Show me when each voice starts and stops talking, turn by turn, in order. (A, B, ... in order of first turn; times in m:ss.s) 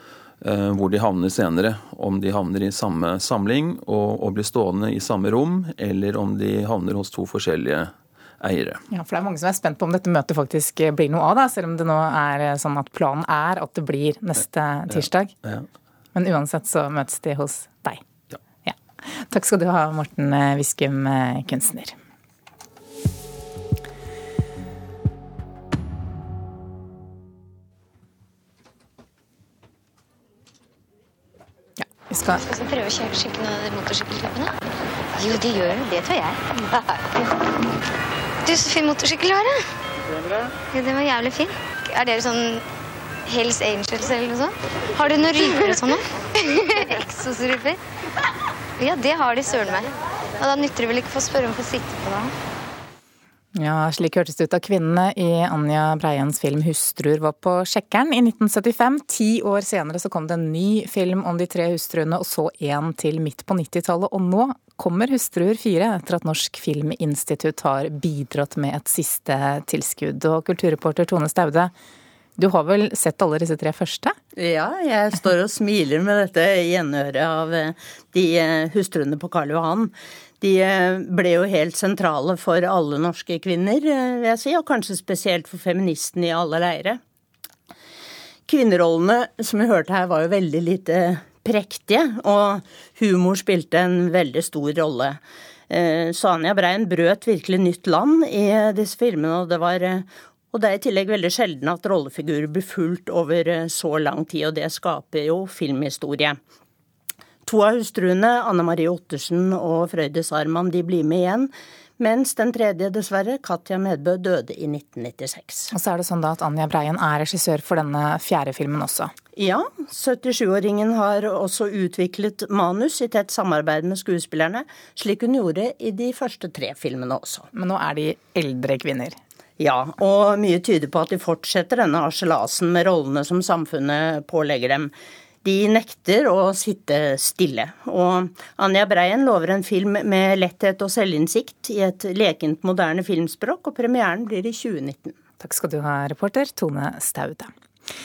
0:00.4-0:08.8 A
0:08.9-0:15.4 B
0:16.1-0:18.0 B
0:18.6-0:21.9 B
0:31.8-0:32.4 B
0:32.5-0:34.5 C
0:35.2-0:36.4 C
0:38.4-0:39.6 C
0:40.7-0:42.6 C
0:43.3-0:47.8 C
0:48.8-0:52.3 C
0:53.6-1:11.7 B
1:12.4-1:14.2 B
1:14.4-1:27.0 D
1:28.5-1:46.4 D
1:47.4-1:55.7 D
1:55.7-1:59.1 B
1:59.4-2:07.5 D
2:07.5-2:09.2 B
2:09.6-2:25.2 D
2:25.4-2:27.5 B